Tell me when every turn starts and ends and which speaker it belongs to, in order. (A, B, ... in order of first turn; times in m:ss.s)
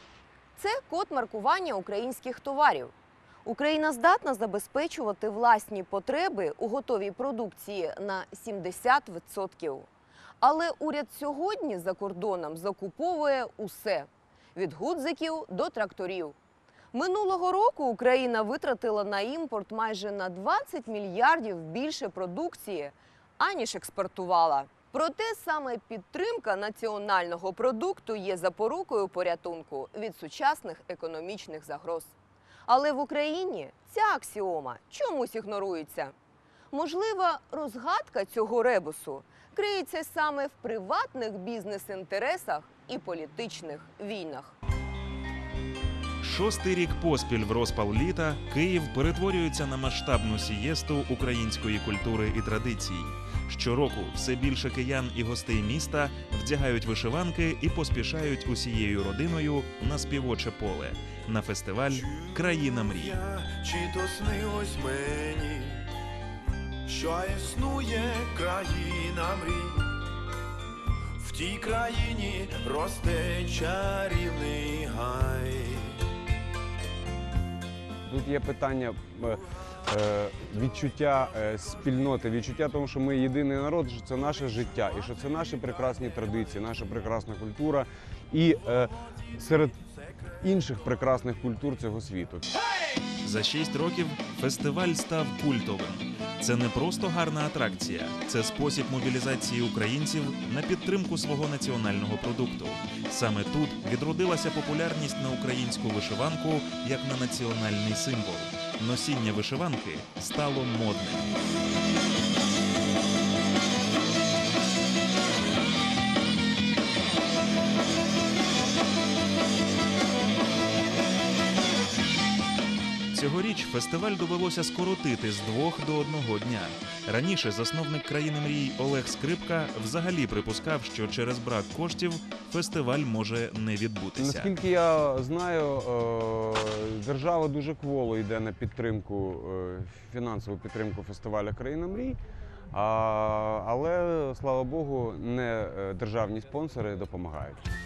0:00.6-0:02.9 A
0:03.4-0:09.9 A
0:10.4-0:16.4 A
0:16.9-0:32.1 A
0:32.6-0:36.1 A
0:36.7-0:44.6 A
0:46.2-1:03.2 B
1:01.9-1:05.8 C
1:06.9-1:09.8 C
1:11.2-1:15.9 C
1:18.1-1:29.7 D
1:30.4-1:32.5 D
1:33.2-1:51.3 B
2:03.1-2:14.5 B
2:14.2-2:22.2 D
2:22.7-2:27.6 D